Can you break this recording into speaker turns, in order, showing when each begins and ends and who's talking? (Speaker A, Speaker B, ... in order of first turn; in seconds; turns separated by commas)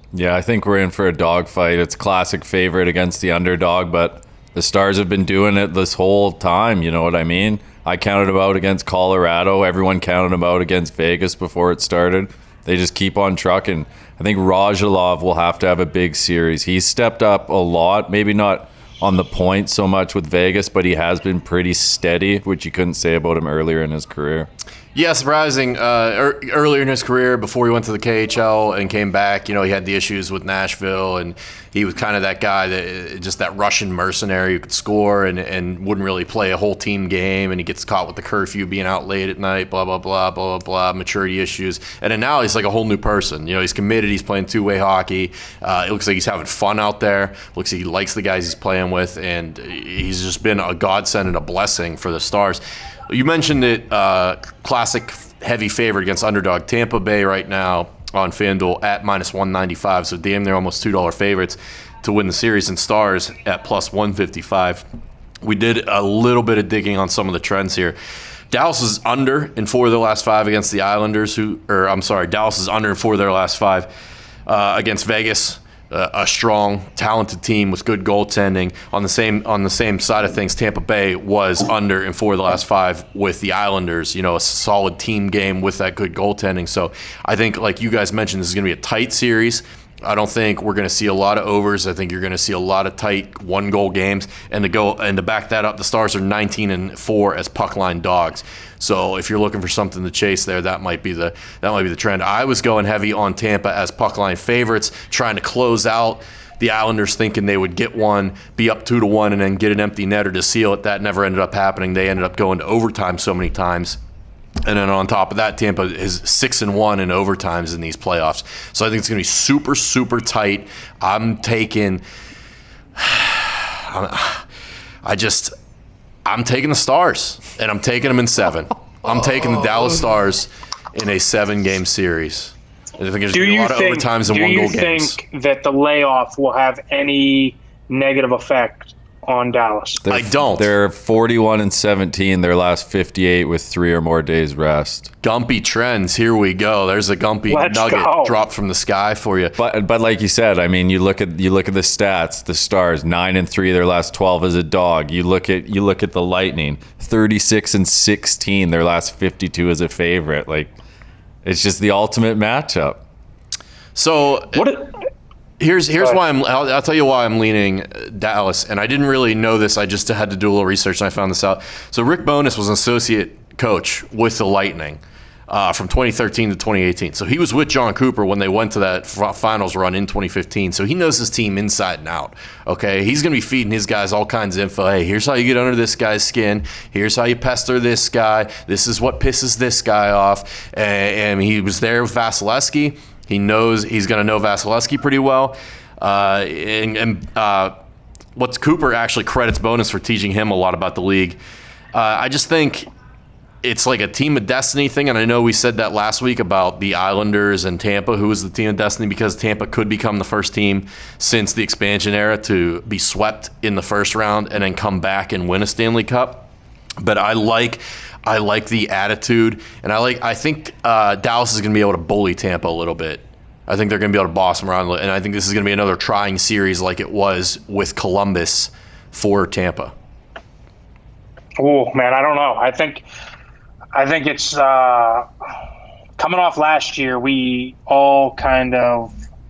Speaker A: 0.1-24.5, Speaker B: 24.9-64.8, Speaker B: 65.4-68.0, Speaker B: 68.5-73.9, Speaker B: 74.5-114.0, Speaker B: 114.6-122.0, Speaker B: 123.0-124.5, Speaker B: 125.0-125.5, Speaker B: 126.3-135.2, Speaker C: 133.3-140.0, Speaker A: 140.0-145.1, Speaker B: 140.1-140.7, Speaker B: 145.2-149.6, Speaker C: 147.5-148.4, Speaker A: 149.6-160.7, Speaker A: 161.4-163.0, Speaker B: 163.9-164.7, Speaker C: 164.6-164.9, Speaker B: 165.6-197.7, Speaker B: 198.4-201.4, Speaker B: 201.9-202.9, Speaker B: 203.6-216.5, Speaker B: 217.0-229.9, Speaker C: 231.6-233.0, Speaker C: 233.9-235.2, Speaker C: 236.2-239.1